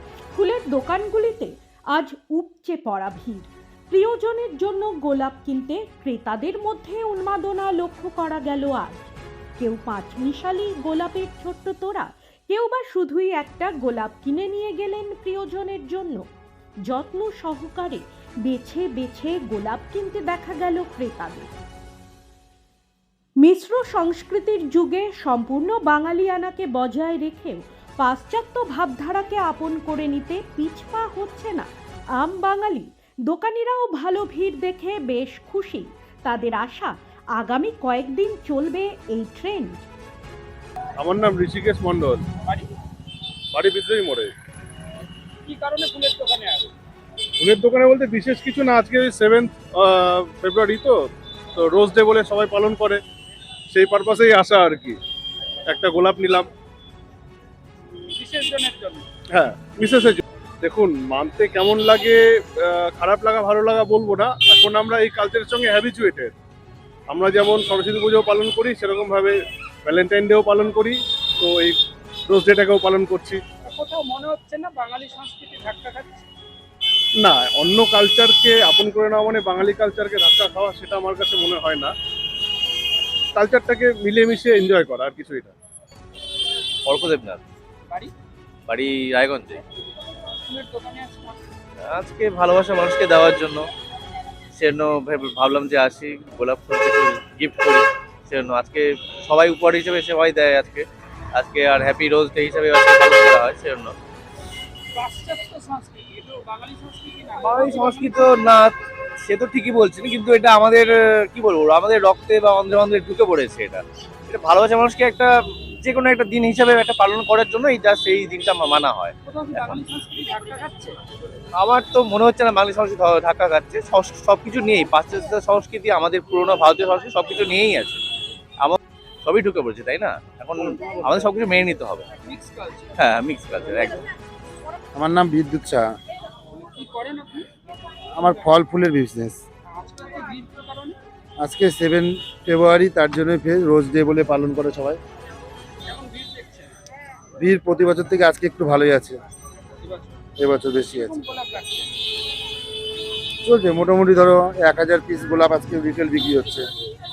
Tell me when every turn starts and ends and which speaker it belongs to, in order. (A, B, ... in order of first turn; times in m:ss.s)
0:00.3-0:16.2 A
0:16.9-0:21.5 A
0:23.4-0:39.9 A
0:41.0-0:42.2 B
0:43.5-0:44.3 B
0:45.5-0:46.7 C
0:47.4-0:51.0 B
0:51.6-0:53.0 B
0:53.7-0:55.0 B
0:55.7-0:56.5 B
0:58.2-0:59.0 C
0:59.3-1:06.3 B
1:07.1-1:13.4 B
1:13.6-1:16.3 C
1:17.2-1:21.9 B
1:23.4-1:25.6 B
1:26.9-1:27.4 D
1:28.7-1:29.6 D
1:30.5-1:31.4 C
1:31.9-1:33.6 D
1:34.6-1:40.8 D
1:41.4-1:43.9 D
1:45.0-1:48.2 C
1:47.4-1:48.7 D
1:49.3-1:55.3 D
1:55.8-1:59.8 D
1:59.3-2:01.0 C
2:01.6-2:08.0 D
2:08.6-2:12.1 D
2:12.3-2:12.9 C
2:13.0-2:14.0 D
2:15.0-2:15.9 E
2:16.6-2:17.5 C
2:18.2-2:19.4 E
2:19.7-2:21.0 C
2:21.4-2:25.0 E
2:25.9-2:26.7 C
2:27.4-2:29.2 E
2:30.4-2:31.2 E
2:31.0-2:31.9 C
2:33.4-2:36.7 E